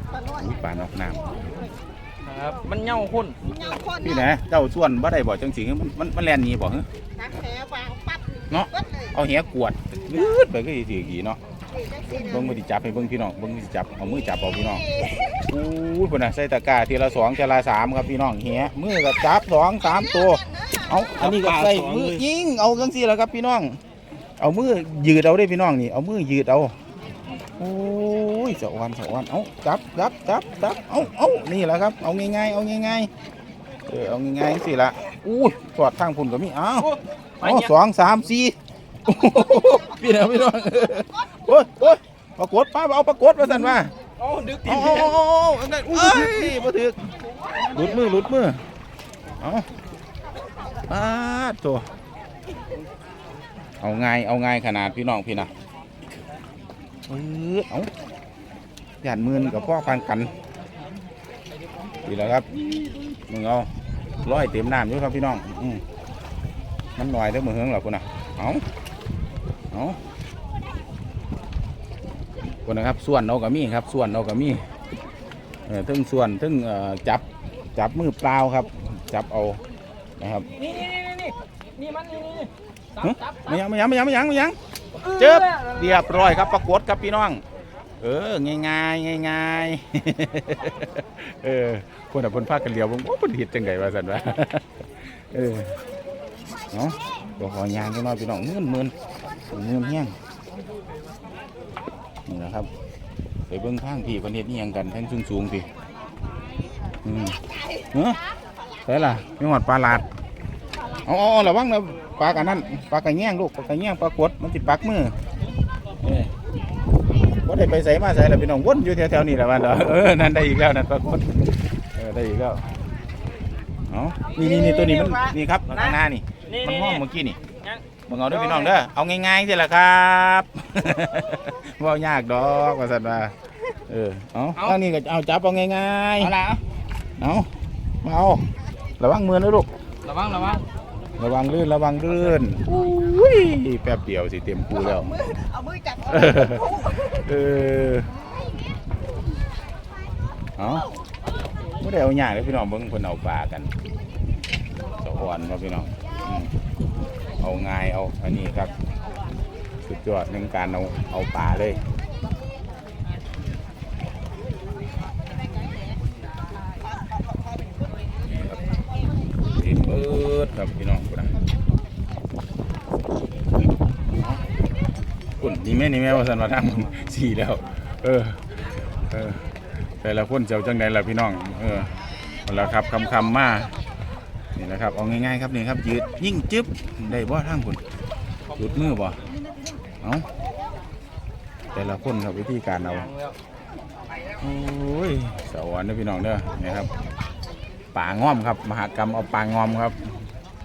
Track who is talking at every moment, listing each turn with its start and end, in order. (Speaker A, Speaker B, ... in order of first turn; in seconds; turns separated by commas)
Speaker A: 0.3-1.4, Speaker B: 2.2-3.4, Speaker C: 3.7-4.0, Speaker A: 3.9-6.8, Speaker C: 7.3-8.3, Speaker A: 8.5-11.4, Speaker A: 12.1-23.8, Speaker B: 21.3-22.2, Speaker A: 24.4-26.8, Speaker A: 27.6-33.1, Speaker A: 33.9-43.9, Speaker B: 36.8-37.7, Speaker B: 43.6-45.2, Speaker A: 44.6-47.0, Speaker B: 45.9-46.5, Speaker A: 47.7-48.6, Speaker A: 49.4-49.7, Speaker A: 50.9-51.9, Speaker A: 53.8-55.5, Speaker A: 57.1-57.9, Speaker A: 59.0-60.3, Speaker A: 62.0-62.6, Speaker A: 63.3-63.7, Speaker A: 64.2-65.8, Speaker A: 67.0-68.6, Speaker A: 69.7-70.0, Speaker A: 72.5-74.7, Speaker A: 75.7-79.6, Speaker A: 80.2-80.5, Speaker B: 80.5-83.6, Speaker A: 83.0-84.6, Speaker B: 85.0-86.0, Speaker A: 85.1-87.4, Speaker A: 88.0-95.8, Speaker A: 96.7-98.9, Speaker A: 99.5-100.2, Speaker A: 102.3-102.7, Speaker A: 103.5-105.7, Speaker A: 107.0-107.4, Speaker A: 107.9-108.2, Speaker A: 108.8-110.0, Speaker A: 111.0-115.1, Speaker A: 116.0-116.3, Speaker A: 117.5-121.3, Speaker A: 121.9-122.6, Speaker A: 123.9-127.4, Speaker B: 124.3-128.8, Speaker A: 128.1-133.3, Speaker A: 133.9-136.3, Speaker B: 136.2-136.6, Speaker A: 137.2-137.5, Speaker A: 138.0-138.4, Speaker A: 139.0-139.7, Speaker B: 140.0-140.6, Speaker A: 141.2-145.2, Speaker C: 145.4-146.0, Speaker A: 146.0-148.1, Speaker A: 150.6-150.9, Speaker A: 151.8-153.7, Speaker A: 155.0-156.5, Speaker A: 157.4-158.7, Speaker A: 159.8-161.8, Speaker A: 169.5-171.3, Speaker A: 174.2-174.4, Speaker A: 175.4-178.4, Speaker A: 179.1-179.5, Speaker A: 180.0-183.8, Speaker A: 184.6-187.8, Speaker A: 188.6-189.2, Speaker A: 190.0-190.3, Speaker A: 191.7-193.1, Speaker B: 192.9-193.4, Speaker A: 194.4-196.9, Speaker A: 197.9-200.1